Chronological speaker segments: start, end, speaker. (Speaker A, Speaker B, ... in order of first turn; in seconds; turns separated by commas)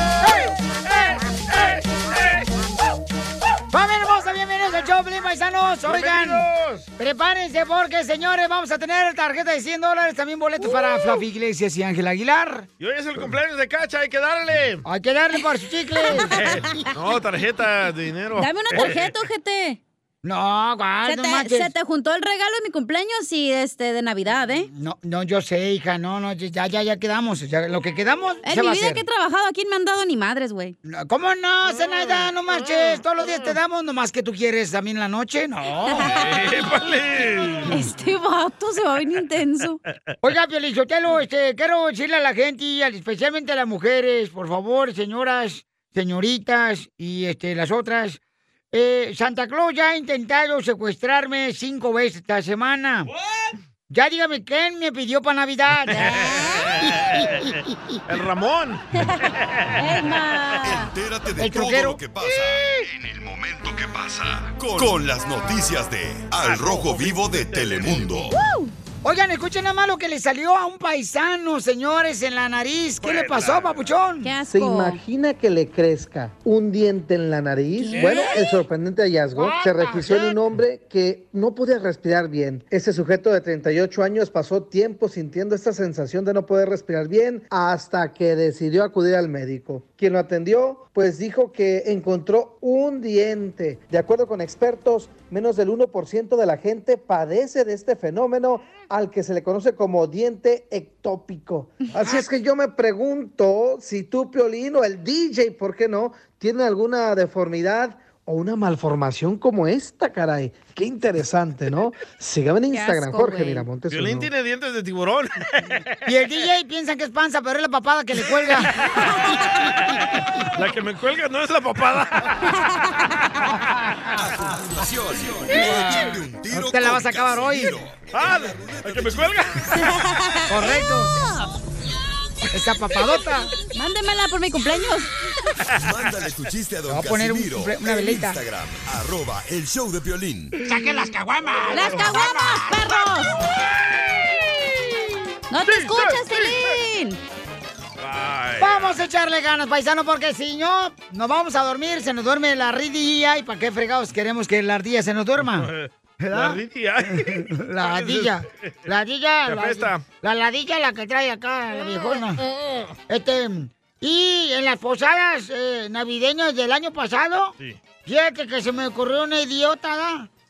Speaker A: 0.2-0.5, Speaker B: 1.5-1.8, Speaker A: 3.7-6.5, Speaker B: 5.9-6.9, Speaker A: 7.0-12.7, Speaker C: 10.6-11.2, Speaker B: 12.8-14.8, Speaker A: 14.8-16.8, Speaker C: 16.0-16.8, Speaker B: 16.4-19.1, Speaker C: 18.4-19.8, Speaker A: 20.2-21.7, Speaker C: 21.0-24.7, Speaker A: 24.7-29.0, Speaker C: 28.4-30.8, Speaker A: 30.9-36.2, Speaker B: 31.6-33.6, Speaker C: 35.9-36.3, Speaker B: 36.0-37.8, Speaker C: 37.7-39.8, Speaker A: 40.2-48.2, Speaker A: 48.7-53.1, Speaker A: 53.9-57.4, Speaker C: 55.9-56.7, Speaker B: 58.1-58.8, Speaker C: 59.0-60.9, Speaker B: 59.6-59.8, Speaker D: 60.6-68.4, Speaker A: 61.4-62.3, Speaker B: 66.4-68.3, Speaker A: 66.6-67.1, Speaker C: 68.3-68.7, Speaker A: 69.0-74.3, Speaker B: 73.0-73.9, Speaker C: 74.2-75.0, Speaker E: 74.5-114.3, Speaker C: 77.8-78.5, Speaker B: 77.9-78.3, Speaker A: 79.4-80.4, Speaker C: 112.7-113.7, Speaker B: 113.9-115.8, Speaker A: 116.1-118.8, Speaker B: 120.5-122.3, Speaker D: 124.1-129.4, Speaker A: 125.5-127.8, Speaker B: 128.1-129.9, Speaker C: 129.7-130.5, Speaker A: 130.5-131.2, Speaker A: 132.5-133.5, Speaker C: 133.7-135.1, Speaker D: 135.8-140.5, Speaker A: 136.9-138.4, Speaker A: 140.6-142.9, Speaker C: 141.7-143.3, Speaker B: 144.0-144.5, Speaker C: 145.5-147.2, Speaker B: 145.7-146.6, Speaker B: 148.0-148.9, Speaker A: 148.6-155.7, Speaker B: 155.4-158.7, Speaker A: 156.2-156.6, Speaker A: 157.1-162.4, Speaker B: 159.5-160.1, Speaker A: 163.1-170.3